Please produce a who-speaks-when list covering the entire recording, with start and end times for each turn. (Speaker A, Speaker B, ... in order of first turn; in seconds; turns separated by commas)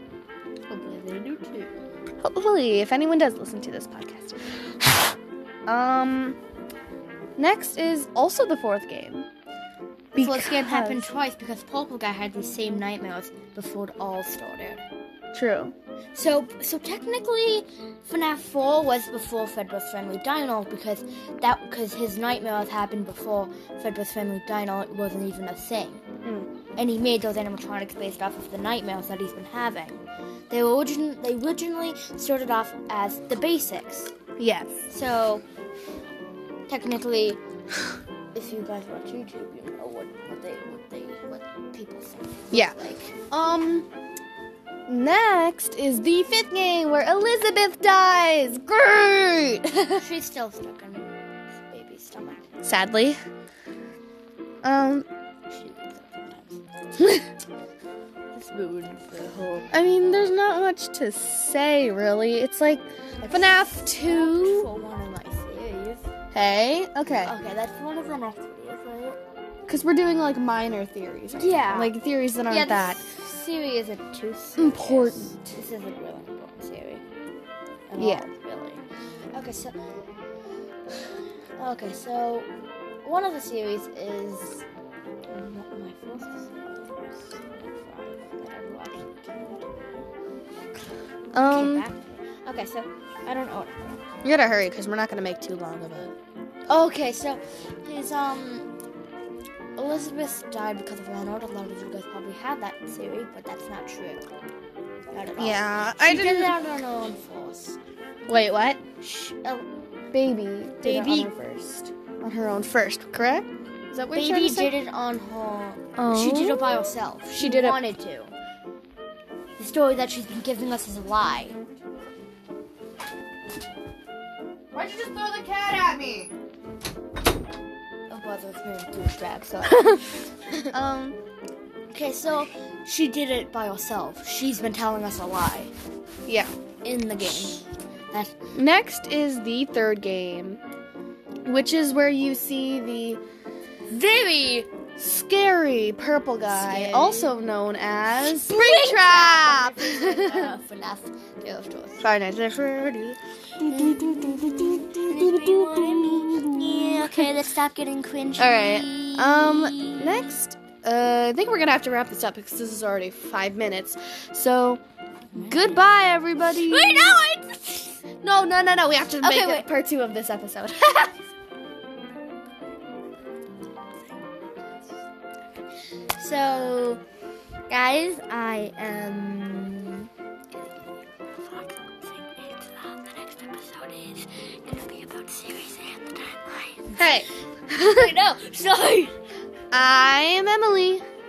Speaker A: 0.7-1.7, Speaker B: 2.2-5.2, Speaker B: 5.7-6.4, Speaker B: 7.4-9.3, Speaker B: 10.1-11.1, Speaker A: 10.2-14.8, Speaker B: 15.3-15.7, Speaker A: 16.1-26.0, Speaker B: 26.2-26.5, Speaker A: 26.8-34.1, Speaker B: 34.4-34.9, Speaker A: 34.9-35.4, Speaker A: 36.7-37.4, Speaker A: 38.3-43.1, Speaker B: 43.3-43.9, Speaker B: 44.9-50.1, Speaker A: 50.0-52.4, Speaker B: 52.6-53.2, Speaker B: 54.6-55.1, Speaker A: 55.5-56.6, Speaker B: 57.0-57.2, Speaker A: 58.3-59.7, Speaker B: 59.7-64.7, Speaker A: 63.2-66.0, Speaker B: 66.3-67.3, Speaker A: 67.2-69.2, Speaker B: 69.7-73.1, Speaker A: 71.3-71.9, Speaker A: 72.5-77.0, Speaker B: 74.6-75.5, Speaker A: 77.9-79.8, Speaker B: 78.0-78.3, Speaker A: 81.6-82.5, Speaker A: 83.0-84.7, Speaker A: 85.3-90.0, Speaker B: 91.3-91.9, Speaker A: 91.4-94.0, Speaker B: 94.2-96.1, Speaker A: 96.7-98.7, Speaker A: 99.8-104.2, Speaker A: 105.1-107.8, Speaker B: 105.4-106.6, Speaker B: 108.3-108.8, Speaker A: 109.0-109.7, Speaker B: 110.1-114.7, Speaker A: 110.8-111.3, Speaker A: 114.1-118.3, Speaker B: 116.0-117.8, Speaker A: 119.6-121.6, Speaker B: 124.7-126.3, Speaker A: 128.1-130.3, Speaker B: 129.7-130.0, Speaker B: 130.7-131.2, Speaker A: 131.9-135.7, Speaker A: 136.8-138.3, Speaker B: 138.6-140.6, Speaker B: 141.5-143.2, Speaker A: 143.9-144.7, Speaker B: 145.0-150.5, Speaker A: 146.5-147.3, Speaker A: 148.1-152.1, Speaker B: 152.0-157.3, Speaker A: 153.6-160.3, Speaker B: 158.4-164.8, Speaker A: 165.3-165.8, Speaker B: 165.4-167.2, Speaker A: 166.4-168.0, Speaker B: 168.2-171.1, Speaker A: 169.2-169.7, Speaker A: 173.6-174.2, Speaker A: 176.2-177.0, Speaker A: 177.7-187.2, Speaker B: 186.9-188.1, Speaker A: 187.8-189.1, Speaker B: 189.7-191.0